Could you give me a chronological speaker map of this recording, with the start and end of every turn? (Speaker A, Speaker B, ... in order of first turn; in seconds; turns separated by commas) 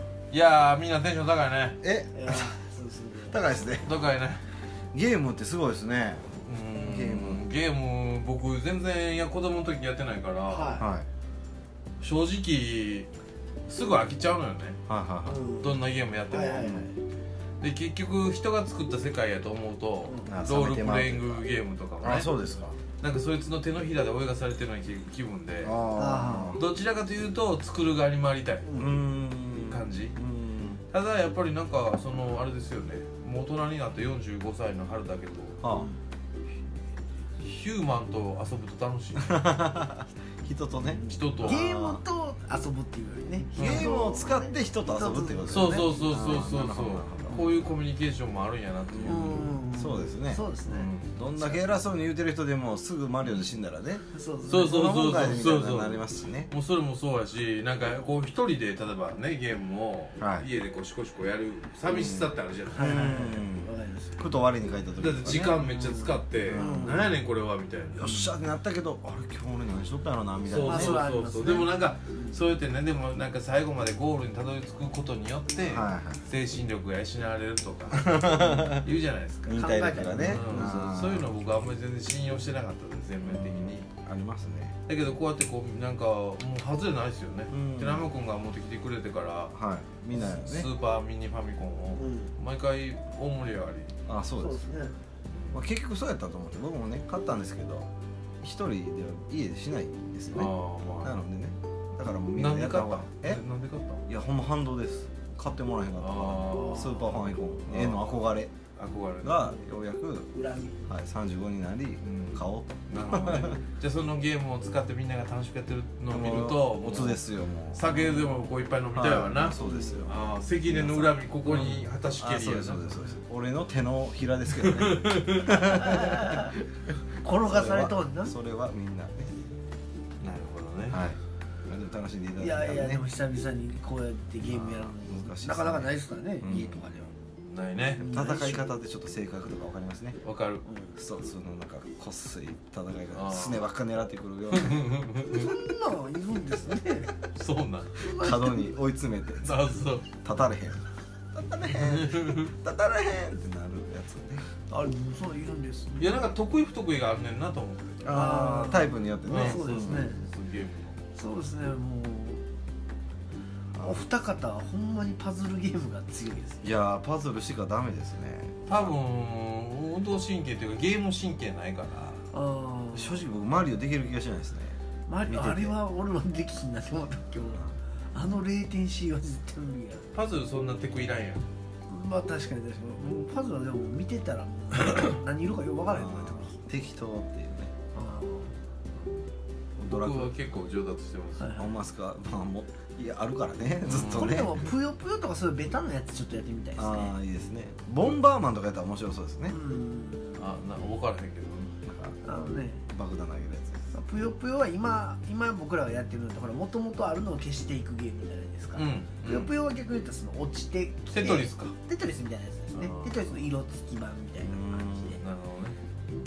Speaker A: 0.3-1.8, Speaker B: 1.8-2.5, Speaker C: 2.1-3.4, Speaker B: 3.3-4.0, Speaker A: 3.8-4.4, Speaker B: 4.9-7.4, Speaker A: 6.4-10.8, Speaker C: 10.5-10.9, Speaker B: 10.8-11.1, Speaker A: 12.0-13.1, Speaker A: 13.7-14.8, Speaker B: 14.9-15.4, Speaker C: 15.2-16.9, Speaker A: 15.6-16.9, Speaker B: 16.6-16.8, Speaker A: 17.6-22.3, Speaker C: 20.0-20.3, Speaker B: 20.2-21.4, Speaker B: 22.0-22.8, Speaker A: 22.9-25.8, Speaker B: 25.6-26.6, Speaker C: 25.9-26.6, Speaker A: 26.6-28.7, Speaker C: 28.6-29.0, Speaker B: 28.8-30.8, Speaker A: 29.4-30.1, Speaker A: 30.9-35.6, Speaker B: 35.6-35.9, Speaker A: 37.4-39.5, Speaker B: 39.2-42.0, Speaker C: 40.8-46.0, Speaker A: 41.1-41.6, Speaker B: 43.5-47.7, Speaker A: 43.5-43.9, Speaker A: 45.5-49.6, Speaker C: 47.3-47.5, Speaker B: 48.9-50.5, Speaker C: 49.0-50.9, Speaker A: 50.6-51.7, Speaker B: 51.0-56.5, Speaker A: 53.2-53.5, Speaker C: 54.1-54.8, Speaker A: 54.5-63.3, Speaker B: 60.2-60.5, Speaker B: 61.9-65.7, Speaker C: 62.7-64.4, Speaker A: 65.0-68.1, Speaker C: 65.5-67.2, Speaker B: 66.4-67.1, Speaker B: 68.0-71.0, Speaker C: 68.0-68.3, Speaker A: 70.4-79.6, Speaker C: 70.6-72.4, Speaker B: 75.6-76.2, Speaker B: 77.9-78.9, Speaker B: 79.5-81.3, Speaker C: 79.5-80.8, Speaker A: 80.2-83.9, Speaker B: 83.2-84.8, Speaker A: 84.9-89.6, Speaker B: 87.5-88.1, Speaker B: 89.5-90.7, Speaker A: 90.1-94.0, Speaker C: 92.0-92.3, Speaker B: 94.0-94.6, Speaker C: 94.4-94.9, Speaker B: 95.5-97.9, Speaker B: 98.4-103.4, Speaker A: 100.3-101.2, Speaker A: 102.3-104.0, Speaker B: 104.1-108.5, Speaker A: 106.0-109.6, Speaker B: 109.2-110.3, Speaker C: 110.3-110.8, Speaker B: 110.8-113.6, Speaker A: 112.0-123.2, Speaker B: 116.1-118.3, Speaker B: 118.9-129.3, Speaker C: 119.6-120.1, Speaker A: 124.5-126.1, Speaker C: 125.6-126.5, Speaker C: 127.2-128.3, Speaker A: 130.2-131.0, Speaker B: 130.9-133.0, Speaker C: 132.4-137.1, Speaker B: 134.5-136.8, Speaker A: 137.4-138.1, Speaker C: 137.9-138.7, Speaker B: 138.1-140.2, Speaker A: 140.2-140.6, Speaker C: 140.6-141.0, Speaker B: 140.9-144.8, Speaker A: 143.1-143.7, Speaker A: 144.5-145.5, Speaker C: 145.3-147.1, Speaker A: 147.2-148.0, Speaker C: 148.0-148.8, Speaker B: 148.1-154.4, Speaker A: 149.4-150.1, Speaker A: 151.7-152.5, Speaker C: 154.7-156.3, Speaker A: 155.9-158.6, Speaker B: 158.0-160.2, Speaker C: 158.1-160.2, Speaker A: 159.2-161.0, Speaker C: 161.1-162.4, Speaker B: 163.7-164.1, Speaker C: 163.8-166.7, Speaker B: 166.6-168.9, Speaker A: 168.7-172.3, Speaker C: 172.3-173.2, Speaker B: 172.9-175.7, Speaker C: 175.1-180.1, Speaker A: 180.1-181.5, Speaker C: 181.9-186.6, Speaker B: 185.9-187.7, Speaker C: 187.9-188.6, Speaker A: 188.9-189.3, Speaker B: 189.8-190.3, Speaker A: 189.8-191.5, Speaker C: 191.4-191.7, Speaker B: 191.5-194.6, Speaker A: 193.8-194.4, Speaker C: 194.0-197.1, Speaker B: 196.8-199.5, Speaker C: 199.5-200.6, Speaker A: 200.3-201.7, Speaker B: 201.8-202.2, Speaker C: 202.2-202.8, Speaker B: 202.9-203.8, Speaker C: 203.9-215.2, Speaker A: 208.7-209.5, Speaker A: 211.1-211.8, Speaker A: 212.7-213.4, Speaker B: 214.4-215.2, Speaker A: 215.2-215.8